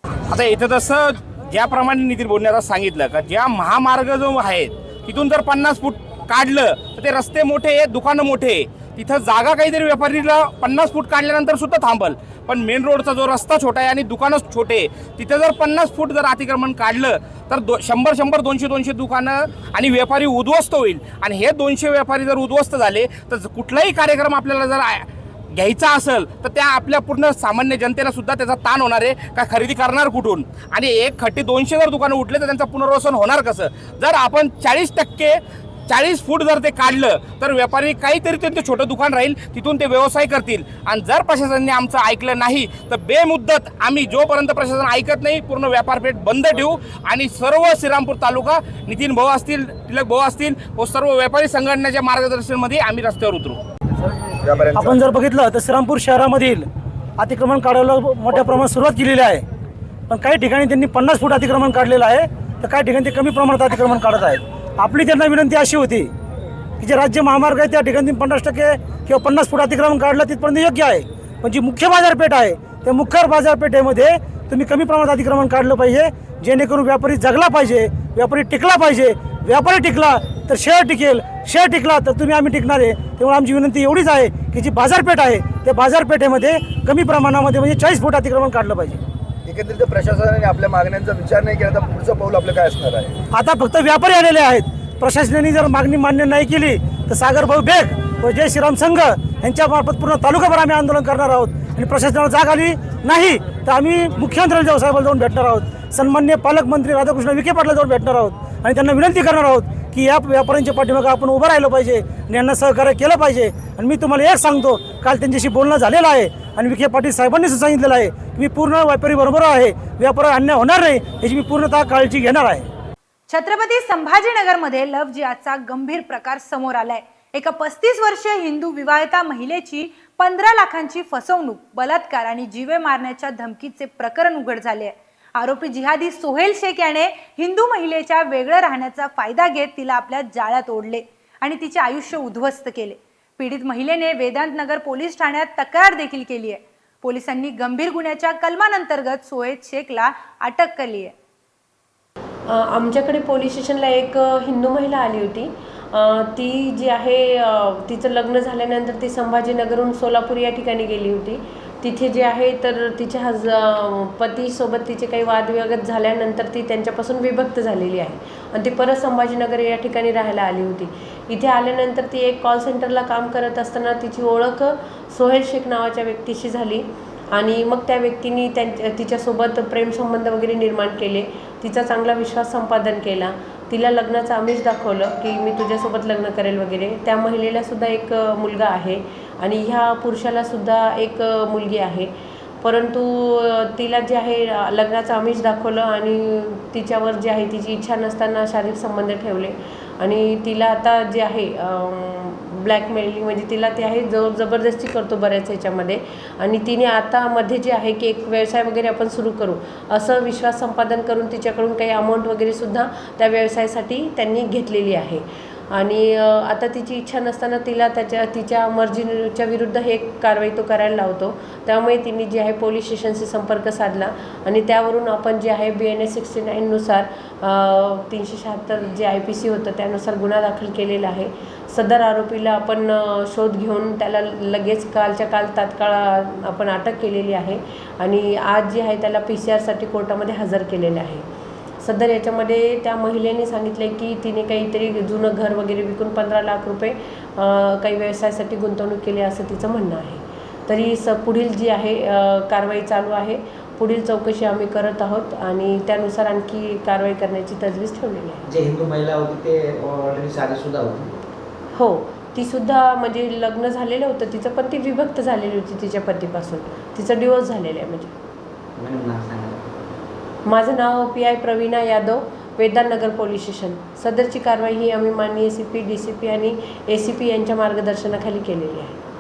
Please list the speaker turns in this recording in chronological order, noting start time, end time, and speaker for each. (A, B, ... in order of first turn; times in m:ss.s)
0:00.3-0:53.6 A
0:54.2-0:55.0 B
0:54.7-0:59.4 C
1:00.1-1:06.1 C
1:06.8-1:29.0 C
1:29.4-1:33.2 B
1:33.3-2:02.7 C
2:03.3-2:31.1 D
2:32.5-3:12.1 E
3:12.6-4:01.2 E
4:01.8-4:18.5 E
4:18.5-4:21.2 F
4:21.8-4:28.1 E
4:28.8-4:29.7 F
4:30.5-4:39.0 E